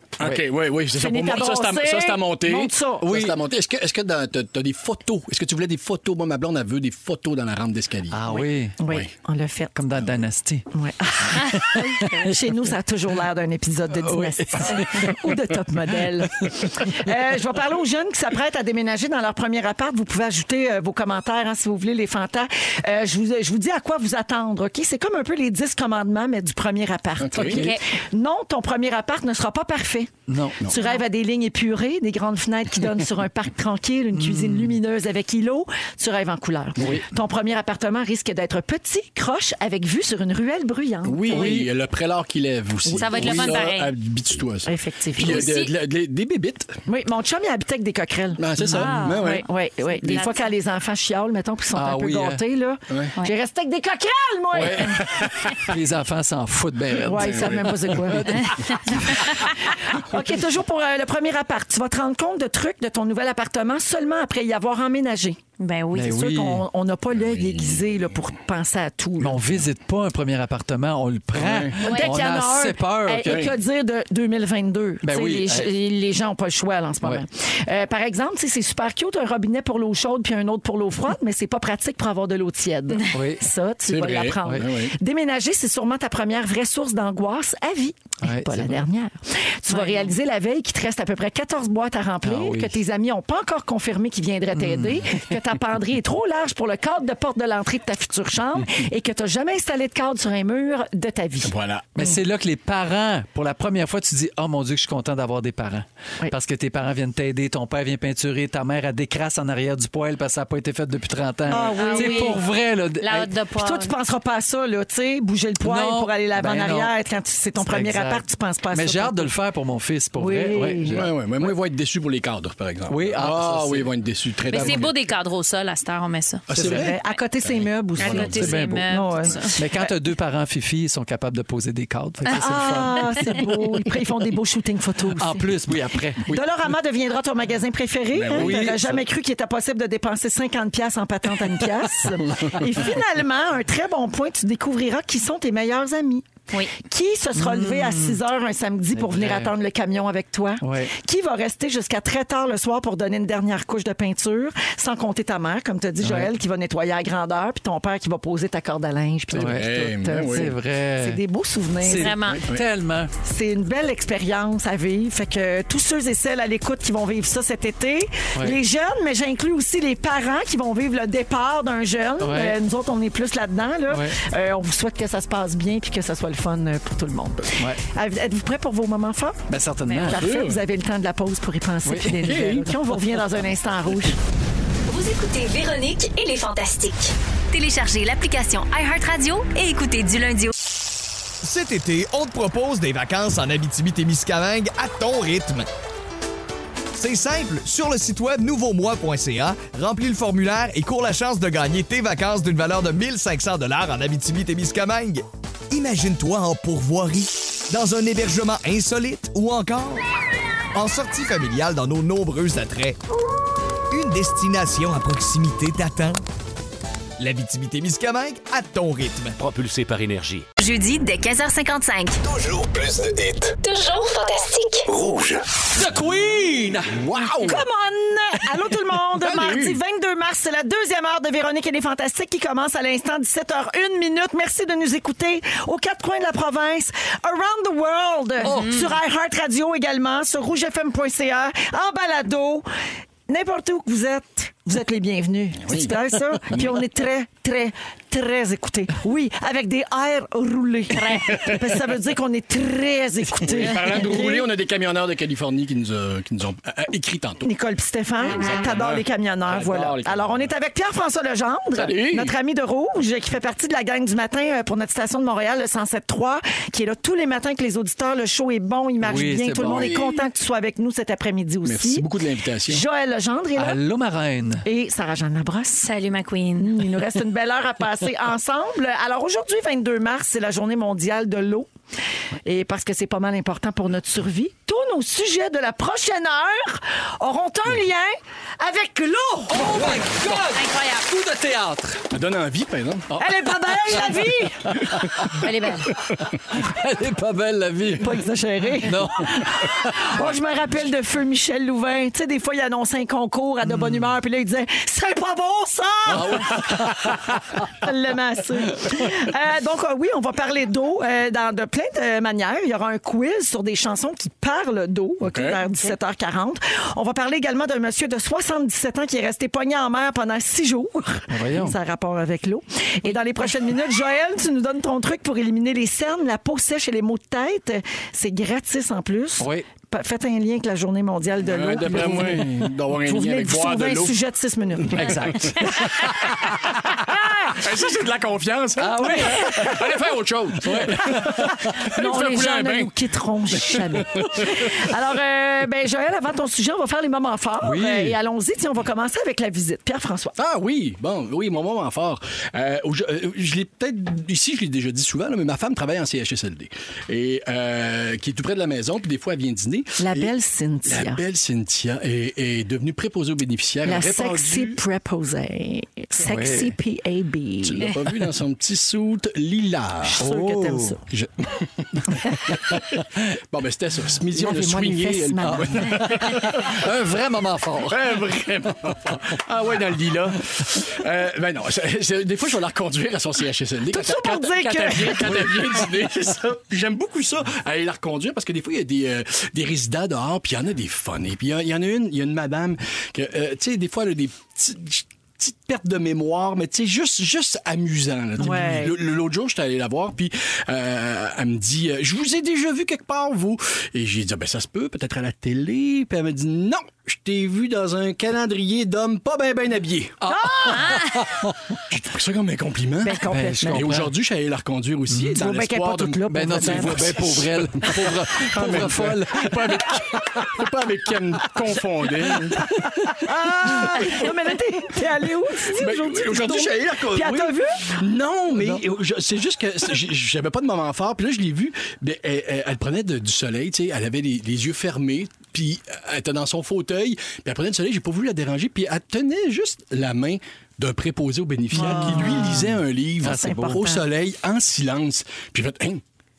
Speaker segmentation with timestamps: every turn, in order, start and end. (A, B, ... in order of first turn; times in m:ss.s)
0:00.2-0:09.1 A
0:00.9-0:03.1 B
0:03.0-0:03.4 C
0:08.1-0:08.8 C
0:08.3-0:09.7 B
0:09.7-0:10.7 C
0:10.7-0:41.6 B
0:11.3-0:12.3 C
0:11.5-0:12.1 D
0:14.0-0:15.4 C
0:27.2-0:27.7 A
0:27.4-0:27.8 D
0:30.3-0:30.6 C
0:30.7-0:31.0 D
0:34.1-0:34.8 C
0:41.0-0:46.8 A
0:41.3-0:41.7 C
0:42.9-0:43.9 D
0:43.2-0:43.5 C
0:44.6-0:45.5 B
0:45.2-0:45.7 D
0:46.9-0:55.2 B
0:48.4-0:49.4 A
0:48.6-0:49.1 C
0:48.7-0:49.4 D
0:50.0-0:50.4 D
0:50.0-0:50.3 A
0:51.7-0:52.4 C
0:52.9-0:53.1 A
0:54.5-0:59.4 C
0:57.0-1:05.4 B
0:57.1-0:58.3 A
1:05.6-1:06.1 D
1:05.9-1:06.6 C
1:06.0-1:09.4 B
1:07.1-1:08.0 A
1:09.2-1:13.5 C
1:11.3-1:11.8 A
1:11.8-1:41.5 B
1:11.8-1:12.1 D
1:13.2-1:13.5 A
1:15.0-1:15.7 C
1:23.1-1:23.5 C
1:23.9-1:24.9 A
1:28.2-1:28.8 C
1:29.7-1:30.1 D
1:32.2-1:32.8 C
1:34.5-1:35.1 C
1:41.4-1:42.1 A
1:41.9-1:53.3 C
1:51.5-1:52.4 B
1:51.5-1:52.4 D
1:53.0-1:53.9 D
1:53.6-1:59.3 B
1:55.6-1:56.9 C
1:57.6-2:01.5 C
2:00.2-2:01.0 B
2:00.9-2:04.9 A
2:02.9-2:03.9 C
2:04.5-2:04.8 C
2:04.5-2:06.5 D
2:06.5-2:08.7 A
2:06.5-2:06.9 C
2:06.6-2:09.9 B
2:08.0-2:09.6 D
2:08.3-2:08.9 C
2:09.5-2:13.4 C
2:12.3-2:15.5 B
2:15.2-2:16.4 C
2:16.2-2:26.2 B
2:18.1-2:19.0 A
2:18.3-2:18.9 C
2:26.8-2:42.2 B
2:27.4-2:28.2 C
2:28.9-2:29.5 C
2:30.6-2:30.9 C
2:36.0-2:36.3 C
2:39.3-2:40.5 A
2:39.3-2:41.2 C
2:41.8-2:43.1 C
2:41.9-2:42.4 D
2:42.3-2:42.6 A
2:43.2-2:59.4 B
2:52.2-2:52.6 C
2:53.9-2:54.2 C
2:59.5-3:00.2 C
2:59.9-3:00.1 D
3:00.0-3:04.2 B
3:00.2-3:00.6 A
3:01.8-3:02.5 C
3:02.2-3:02.7 A
3:04.9-3:10.5 E
3:11.4-3:15.7 F
3:16.9-3:30.0 F
3:30.7-3:33.0 F
3:33.9-3:36.2 F
3:37.2-3:39.4 F
3:39.4-3:40.5 G
3:40.6-3:42.2 E
3:42.2-3:43.5 G
3:43.6-3:44.9 E
3:44.9-3:45.4 G
3:45.7-3:47.0 C
3:46.9-3:47.6 A
3:47.4-4:02.7 B
3:49.2-3:49.8 A
3:58.4-3:58.8 C
3:58.4-3:58.8 D
4:03.3-4:14.5 B
4:05.6-4:06.0 A
4:11.0-4:11.6 A
4:13.4-4:17.5 A
4:17.4-4:32.1 B
4:18.3-4:20.5 A
4:21.7-4:22.3 A
4:29.0-4:30.0 C
4:29.6-4:30.2 A
4:31.6-4:32.8 A
4:32.7-4:33.8 B
4:33.6-4:34.6 C
4:34.6-4:35.9 B
4:35.8-4:36.8 D
4:36.6-4:41.7 B
4:42.4-4:50.1 B
4:49.5-4:52.0 C
4:50.5-4:51.0 D
4:52.1-4:53.1 A
4:53.2-4:54.8 B
4:53.8-4:54.1 C
4:54.7-4:55.5 C
4:55.0-4:55.2 A
4:55.4-4:55.9 D
4:56.1-4:58.2 C
4:58.0-5:07.0 B
4:58.8-5:00.2 C
5:03.7-5:04.0 C
5:06.1-5:07.6 C
5:07.7-5:35.9 B
5:15.2-5:15.6 A
5:21.3-5:21.8 C
5:29.4-5:29.7 C
5:31.4-5:34.2 A
5:34.9-5:35.8 A
5:37.1-5:37.6 B
5:37.5-5:42.9 A
5:38.8-5:39.7 C
5:38.9-5:39.9 B
5:40.6-5:41.6 C
5:41.2-5:50.4 B
5:43.6-5:44.8 A
5:47.6-5:48.2 C
5:50.4-6:00.3 A
6:00.0-6:01.2 B
6:00.8-6:04.8 A
6:03.8-6:07.9 B
6:06.2-6:06.8 C
6:07.6-6:10.2 A
6:10.0-6:11.0 B
6:10.2-6:11.0 C
6:11.1-6:16.8 A
6:14.3-6:16.4 B
6:15.4-6:18.0 C
6:17.9-6:50.2 A
6:23.9-6:25.8 B
6:38.4-6:39.0 B
6:50.2-6:51.8 C
6:50.3-6:50.9 B
6:50.5-6:51.2 D
6:51.9-7:02.6 A
6:53.0-6:54.0 B
6:53.3-6:54.1 C
6:55.1-6:55.3 C
6:55.2-6:57.2 B
6:56.3-6:59.8 C
7:02.6-7:03.1 C
7:02.6-7:08.0 B
7:03.7-7:04.3 A
7:05.7-7:26.0 A
7:21.7-7:24.0 B
7:23.2-7:23.9 C